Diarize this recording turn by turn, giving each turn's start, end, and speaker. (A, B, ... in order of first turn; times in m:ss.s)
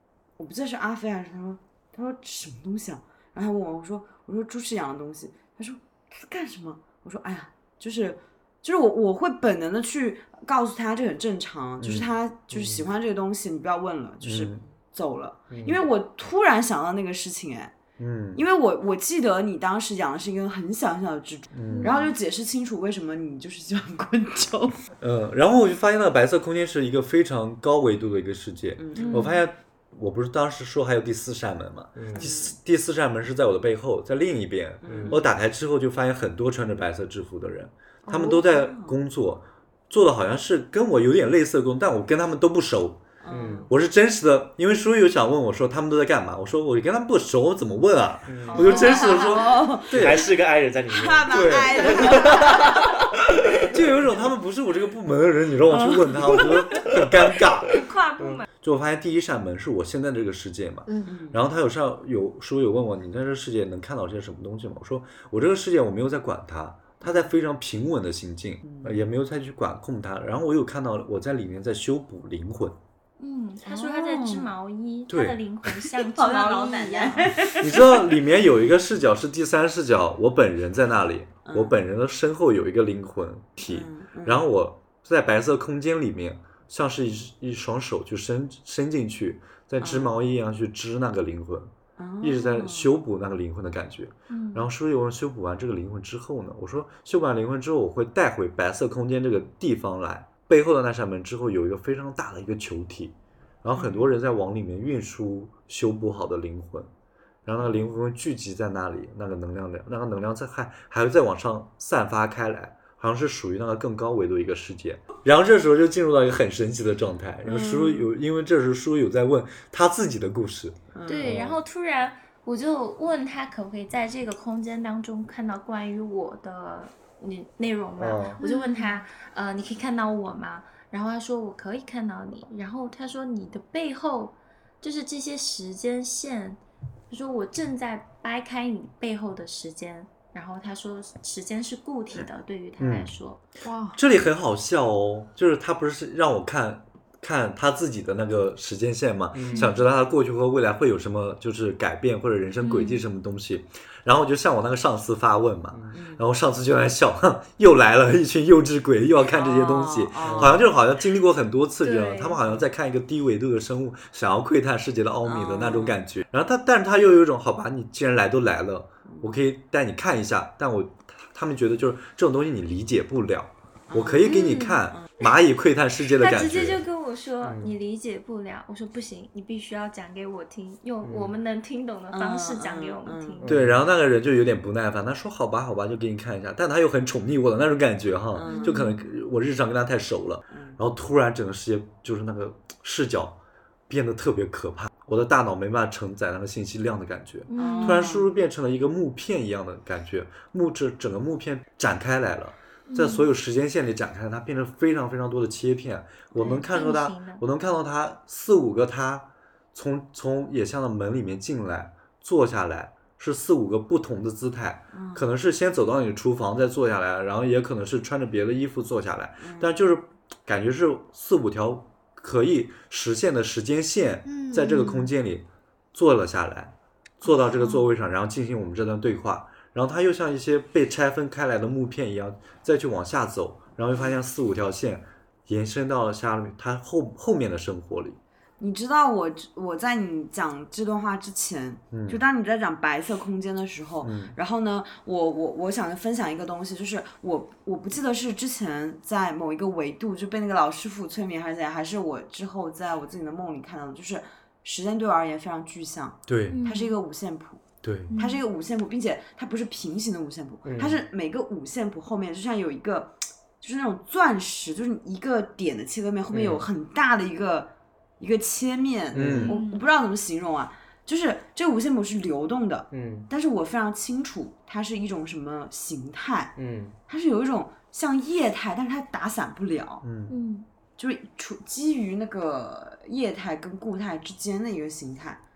0:00.4-0:17.7 A
0:11.8-0:12.1 B
0:12.5-0:12.8 C
0:14.2-0:14.6 B
0:15.5-0:15.8 C
0:18.0-0:18.4 B
0:18.3-0:24.8 A
0:21.5-0:22.0 B
0:21.7-0:22.1 D
0:25.0-0:43.1 B
0:28.8-0:29.3 A
0:29.0-0:29.4 D
0:32.0-0:32.3 C
0:32.1-0:32.6 A
0:34.8-0:35.3 A
0:34.8-0:35.2 C
0:38.0-0:39.0 A
0:43.2-0:43.7 A
0:43.3-0:43.7 C
0:43.7-0:50.2 B
0:48.3-0:48.8 C
0:48.5-0:50.3 A
0:48.5-0:49.1 D
0:49.9-0:53.7 C
0:50.9-0:52.8 A
0:51.3-0:52.4 B
0:53.6-0:57.8 B
0:56.0-0:56.5 C
0:57.7-0:58.4 D
0:58.5-1:12.8 B
1:00.8-1:01.1 E
1:01.0-1:01.4 A
1:08.6-1:09.0 A
1:13.2-1:17.5 D
1:13.6-1:14.5 A
1:15.1-1:15.4 B
1:15.9-1:18.2 A
1:17.6-1:46.9 B
1:21.4-1:21.8 A
1:23.6-1:24.4 A
1:29.8-1:30.2 A
1:32.0-1:32.9 A
1:34.3-1:34.7 D
1:43.7-1:44.1 A
1:47.4-2:01.6 B
1:47.6-1:47.9 A
1:57.4-1:58.1 A
2:00.9-2:01.4 A
2:01.0-2:23.4 D
2:08.0-2:08.4 B
2:08.4-2:08.9 E
2:22.8-2:23.1 B
2:23.6-2:24.0 E
2:23.9-2:56.8 B
2:29.3-2:29.7 C
2:29.5-2:29.8 D
2:32.6-2:33.0 D
2:35.9-2:36.2 A
2:39.3-2:40.7 A
2:40.2-2:40.6 C
2:41.8-2:42.4 D
2:45.2-2:46.0 A
2:49.0-2:49.4 A
2:53.9-2:54.4 A
2:54.2-2:54.8 D
2:56.1-3:03.5 D
2:57.4-2:57.7 C
3:01.0-3:01.3 C
3:02.1-3:03.4 A
3:03.4-3:03.8 C
3:03.4-3:58.2 B
3:08.3-3:08.8 A
3:08.4-3:09.1 D
3:10.5-3:10.8 A
3:17.5-3:18.1 D
3:17.6-3:18.3 A
3:22.9-3:23.3 D
3:26.3-3:27.4 D
3:34.9-3:35.3 A
3:39.4-3:39.7 A
3:44.2-3:45.1 E
3:53.9-3:54.2 A
3:58.6-4:36.6 A
4:01.9-4:02.2 B
4:04.0-4:04.4 B
4:16.3-4:16.6 B
4:16.5-4:16.9 D
4:17.8-4:18.1 B
4:18.1-4:18.4 D
4:20.6-4:21.0 C
4:26.3-4:26.6 C
4:29.1-4:29.6 C
4:29.2-4:29.5 B
4:29.5-4:29.9 D
4:32.9-4:33.3 C
4:36.6-4:36.9 C
4:37.1-4:40.0 A
4:40.0-4:40.3 B
4:40.3-4:40.7 D
4:41.0-4:45.4 A